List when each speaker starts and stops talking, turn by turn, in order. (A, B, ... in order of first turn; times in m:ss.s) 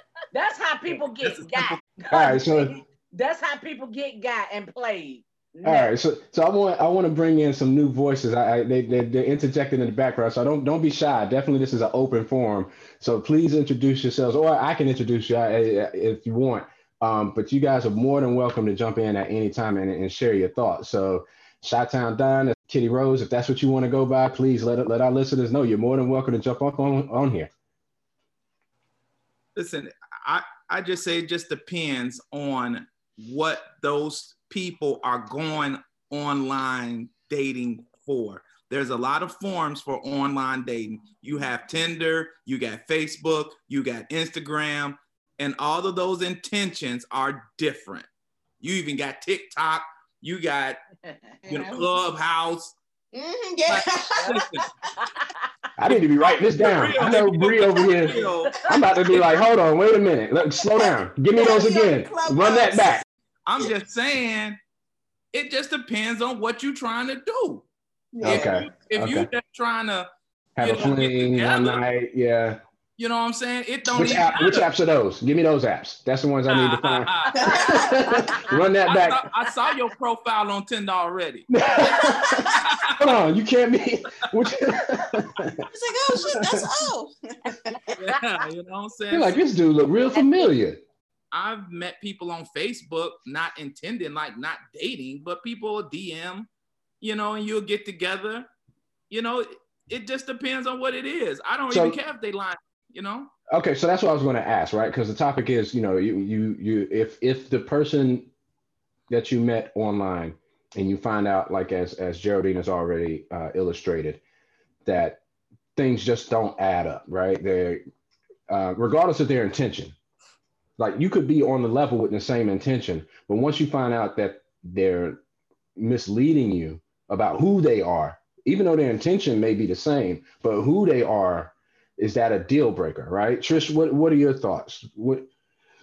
0:00.3-0:05.9 A
0:00.9-0:01.8 B
0:02.1-0:02.7 C
0:05.6-0:27.5 C
0:29.6-0:48.1 B
0:48.6-0:50.8 B
0:51.1-0:51.9 A
0:51.5-0:52.8 B
0:53.1-0:54.6 D
0:53.7-0:54.7 B
0:55.8-1:03.0 C
0:56.3-0:59.3 A
0:56.6-0:58.6 B
1:00.8-1:03.0 D
1:03.5-1:04.6 B
1:05.3-1:07.7 B
1:08.1-1:08.7 D
1:08.2-1:09.3 C
1:08.2-1:11.8 B
1:10.6-1:12.6 C
1:13.0-1:14.7 B
1:13.9-1:19.2 C
1:16.5-1:17.4 B
1:17.5-1:18.4 A
1:18.9-1:21.5 B
1:21.5-1:25.7 C
1:22.5-1:23.1 B
1:25.7-1:27.9 D
1:26.2-1:26.7 C
1:28.0-1:29.4 B
1:29.1-1:30.8 C
1:31.3-1:36.5 B
1:37.0-1:38.5 B
1:39.1-1:43.3 B
1:41.7-1:42.0 C
1:43.5-1:48.3 C
1:49.1-1:54.2 C
1:54.9-1:55.2 C
1:55.8-1:57.8 C
1:58.5-2:00.0 C
2:00.8-2:05.2 C
2:05.8-2:15.3 C